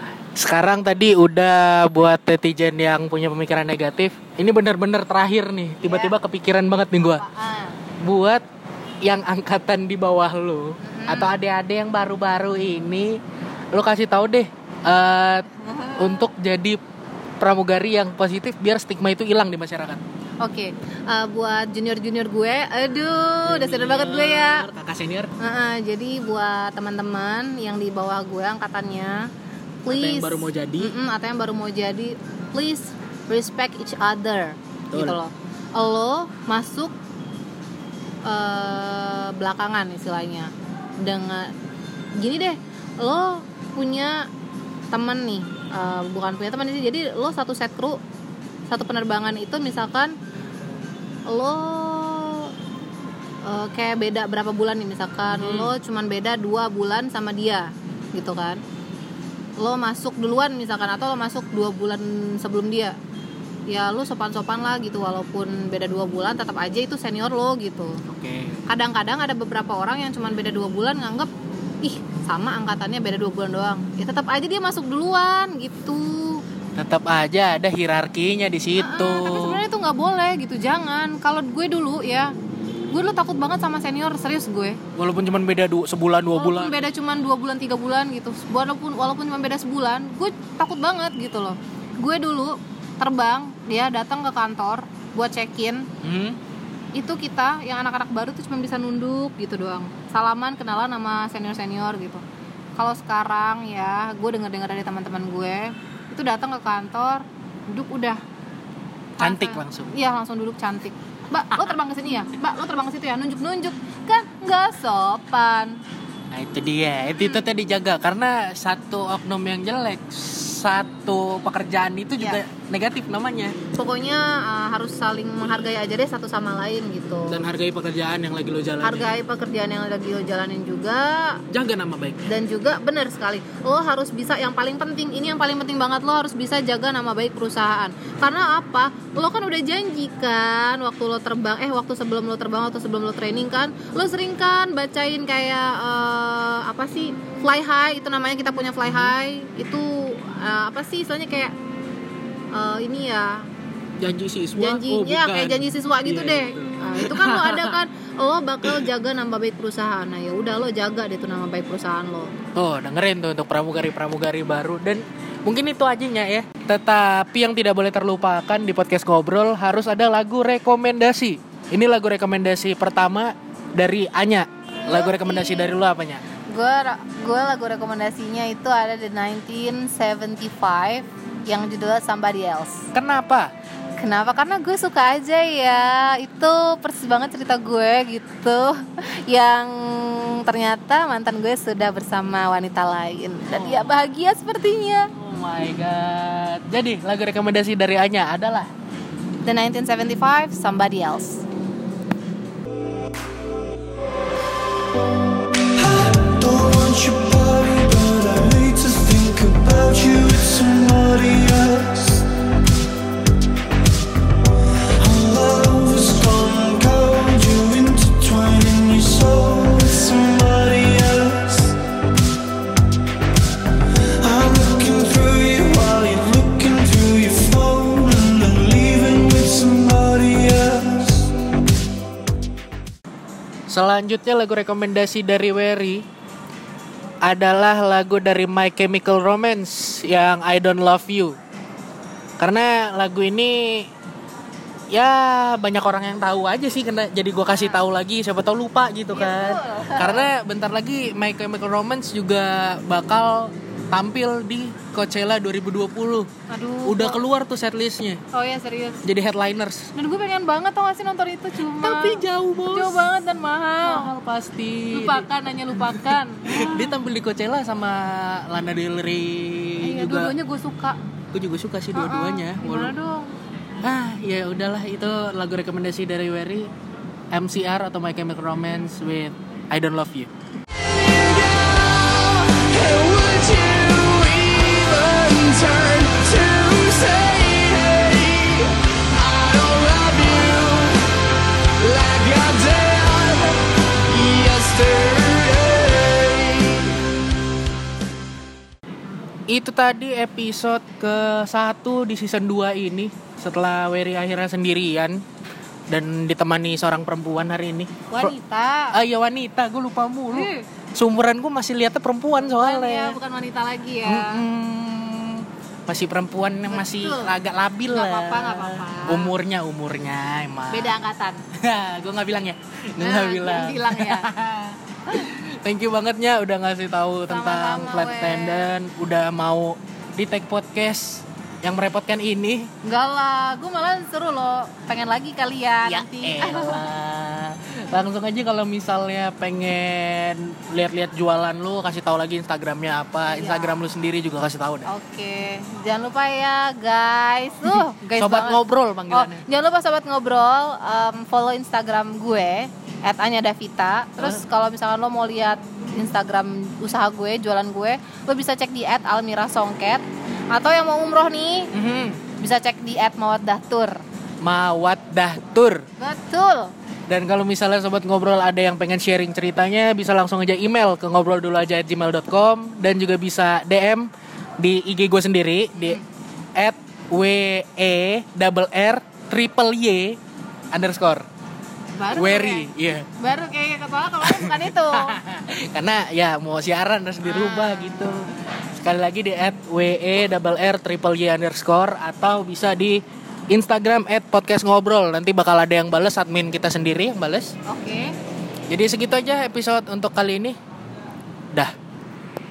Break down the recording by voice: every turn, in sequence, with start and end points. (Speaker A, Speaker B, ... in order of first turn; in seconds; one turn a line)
Speaker A: 0.3-7.2
Speaker B: 5.8-6.2
Speaker B: 7.0-7.8
Speaker A: 8.0-8.4
Speaker A: 9.0-13.2
Speaker B: 10.8-11.3
Speaker A: 13.7-16.8
Speaker B: 15.6-16.3
Speaker A: 17.4-20.0
Speaker B: 20.4-24.7
Speaker A: 23.4-25.3
Speaker B: 25.4-29.3
Speaker B: 29.8-36.9
Speaker A: 29.9-31.0
Speaker A: 34.9-35.2
Speaker B: 38.2-41.5
Speaker B: 42.2-44.3
Speaker B: 44.9-48.0
Speaker B: 48.7-50.1
Speaker B: 51.3-52.5
Speaker B: 53.4-58.6
Speaker A: 55.3-55.7
Speaker B: 59.6-63.0
Speaker B: 63.7-68.0
Speaker A: 68.1-68.7
Speaker B: 68.7-71.3
Speaker B: 71.8-76.4
Speaker A: 76.8-79.6
Speaker B: 78.8-82.3
Speaker B: 82.9-84.8
Speaker A: 85.0-86.8
Speaker B: 86.3-95.9
Speaker A: 96.0-96.4
Speaker B: 97.0-102.2
Speaker B: 102.8-108.2
Speaker B: 109.2-115.8
Speaker A: 109.2-109.9
Speaker A: 116.3-123.6
Speaker B: 123.7-127.4
Speaker A: 127.3-129.1
Speaker B: 128.8-131.4
Speaker A: 131.5-132.3
Speaker B: 132.2-151.5
Speaker A: 148.8-149.1
Speaker B: 152.5-153.5
Speaker A: 154.0-157.8
Speaker B: 154.6-162.3
Speaker A: 162.6-176.2
Speaker B: 174.8-175.7
Speaker B: 176.5-182.9
Speaker A: 182.9-183.5
Speaker B: 184.0-195.1
Speaker A: 193.5-194.0
Speaker A: 195.2-198.7
Speaker B: 199.4-201.4
Speaker C: 205.8-212.3
Speaker C: 215.0-221.8
Speaker C: 224.2-231.3
Speaker A: 233.7-236.0
Speaker A: 237.2-241.4
Speaker A: 242.4-243.9
Speaker A: 244.9-256.3
Speaker B: 247.5-247.8
Speaker B: 249.1-250.3
Speaker B: 256.5-257.2
Speaker A: 256.9-258.2
Speaker B: 258.3-259.0
Speaker A: 259.0-259.9
Speaker B: 259.9-264.1
Speaker A: 261.6-263.1
Speaker A: 263.8-270.3
Speaker B: 264.9-266.9
Speaker B: 269.8-271.0
Speaker A: 271.3-272.9
Speaker B: 271.9-273.3
Speaker A: 273.8-276.7
Speaker A: 277.3-280.3
Speaker A: 280.9-291.1
Speaker A: 291.8-297.0
Speaker A: 299.5-305.2
Speaker A: 305.9-308.3
Speaker B: 308.1-308.9
Speaker A: 308.9-313.2
Speaker B: 310.3-310.7
Speaker B: 312.4-314.4
Speaker A: 314.1-321.0
Speaker B: 316.7-317.3
Speaker B: 317.9-319.3
Speaker B: 320.7-321.4
Speaker A: 321.5-332.7
Speaker B: 323.0-324.3
Speaker B: 327.3-328.7
Speaker B: 332.8-336.8
Speaker A: 335.9-344.9
Speaker B: 343.3-343.8
Speaker B: 344.9-361.7
Speaker A: 347.7-349.5
Speaker A: 361.7-362.2
Speaker B: 362.4-364.0
Speaker A: 364.4-365.9
Speaker B: 366.0-366.7
Speaker A: 367.1-374.1
Speaker A: 374.6-376.0
Speaker B: 375.8-376.0
Speaker A: 376.6-380.2
Speaker A: 380.7-381.2
Speaker B: 382.0-385.2
Speaker A: 382.1-383.1
Speaker A: 384.2-397.5
Speaker B: 387.2-388.4
Speaker B: 397.7-398.1
Speaker A: 398.7-400.6